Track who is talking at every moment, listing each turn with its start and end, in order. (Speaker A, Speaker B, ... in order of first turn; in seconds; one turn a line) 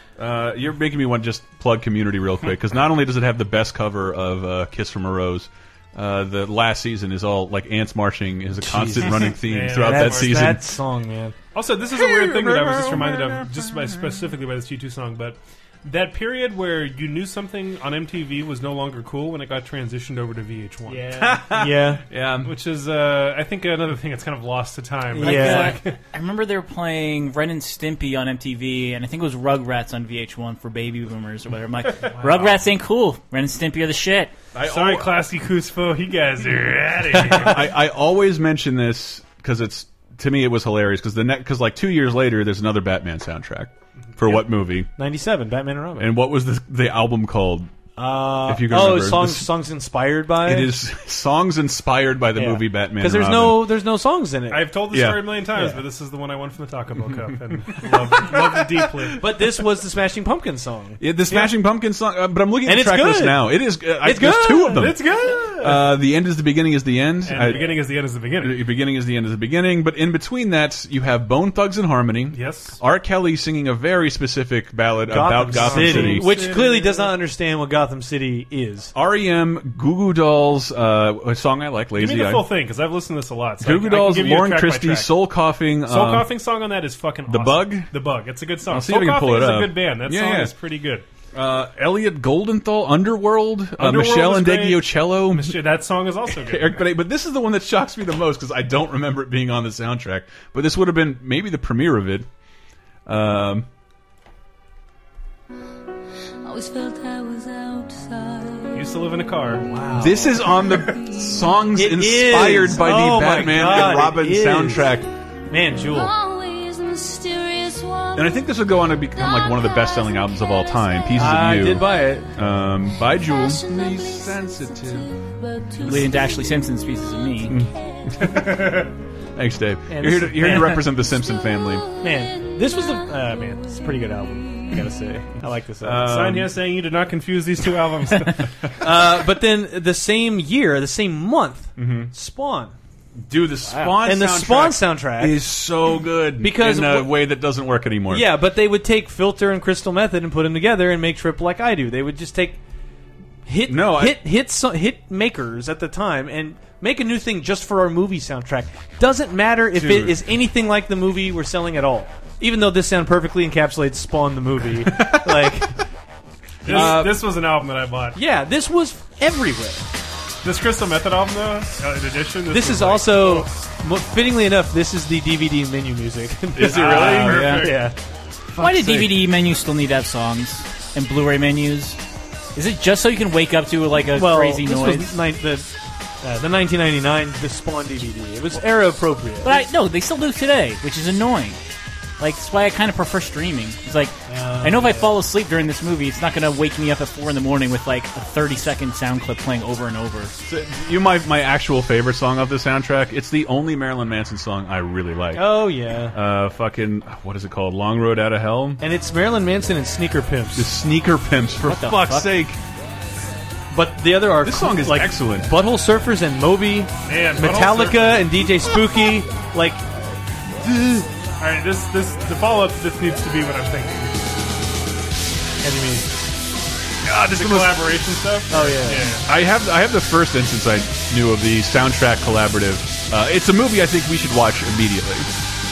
Speaker A: 0.2-10.8
Speaker B: 8.6-11.3
Speaker C: 9.4-10.6
Speaker C: 11.5-21.5
Speaker A: 11.9-14.2
Speaker B: 20.9-22.0
Speaker A: 21.1-22.6
Speaker C: 22.4-26.0
Speaker B: 25.1-25.8
Speaker D: 25.2-34.3
Speaker A: 34.5-35.2
Speaker C: 34.6-37.7
Speaker A: 37.1-44.9
Speaker B: 44.3-46.1
Speaker A: 46.0-47.7
Speaker B: 48.0-50.8
Speaker A: 48.5-49.5
Speaker A: 50.4-53.7
Speaker B: 52.3-54.7
Speaker C: 54.5-59.2
Speaker A: 54.9-55.4
Speaker B: 55.5-55.8
Speaker A: 57.1-59.0
Speaker B: 59.1-61.5
Speaker A: 61.0-67.8
Speaker B: 62.6-65.0
Speaker C: 64.7-66.0
Speaker C: 67.2-68.6
Speaker A: 68.4-76.3
Speaker C: 72.3-72.8
Speaker B: 75.1-78.9
Speaker C: 75.5-77.1
Speaker A: 78.9-82.5
Speaker C: 82.0-85.1
Speaker A: 83.6-86.3
Speaker C: 85.8-91.0
Speaker A: 87.3-87.9
Speaker A: 88.7-90.5
Speaker A: 91.3-95.6
Speaker C: 93.8-96.8
Speaker A: 96.3-102.3
Speaker A: 103.0-103.7
Speaker E: 106.4-108.7
Speaker C: 108.7-109.6
Speaker B: 109.5-110.6
Speaker A: 110.0-115.1
Speaker B: 111.7-115.0
Speaker B: 115.5-116.2
Speaker E: 116.1-118.2
Speaker A: 118.1-125.2
Speaker B: 121.1-122.3
Speaker D: 125.8-127.6
Speaker A: 125.8-126.1
Speaker A: 127.5-128.8
Speaker C: 128.2-128.9
Speaker A: 129.3-131.8
Speaker B: 129.9-131.0
Speaker B: 132.0-136.3
Speaker A: 135.8-136.6
Speaker C: 136.0-138.7
Speaker B: 138.8-142.7
Speaker A: 141.8-142.1
Speaker A: 143.2-148.3
Speaker B: 143.6-145.4
Speaker B: 146.4-147.2
Speaker B: 148.1-152.6
Speaker B: 153.4-165.8
Speaker A: 153.7-154.2
Speaker A: 159.7-160.2
Speaker A: 164.8-165.5
Speaker C: 166.6-168.2
Speaker B: 166.7-167.1
Speaker A: 166.7-167.2
Speaker B: 168.1-169.8
Speaker C: 170.4-173.5
Speaker B: 172.5-177.9
Speaker A: 176.5-177.7
Speaker C: 176.6-177.9
Speaker D: 177.2-177.7
Speaker A: 178.5-179.3
Speaker D: 178.6-182.0
Speaker D: 182.5-185.1
Speaker B: 184.1-185.7
Speaker B: 186.2-189.6
Speaker D: 189.4-191.6
Speaker D: 192.2-200.3
Speaker B: 194.3-195.2
Speaker A: 200.4-208.8
Speaker B: 205.3-206.2
Speaker B: 208.8-210.7
Speaker A: 210.6-212.6
Speaker D: 211.6-212.3
Speaker B: 213.7-219.8
Speaker A: 214.4-215.5
Speaker C: 217.1-218.3
Speaker B: 220.5-221.1
Speaker C: 221.4-224.4
Speaker B: 225.6-226.1
Speaker A: 227.0-228.0
Speaker C: 227.2-229.3
Speaker B: 228.5-229.1
Speaker A: 229.0-235.4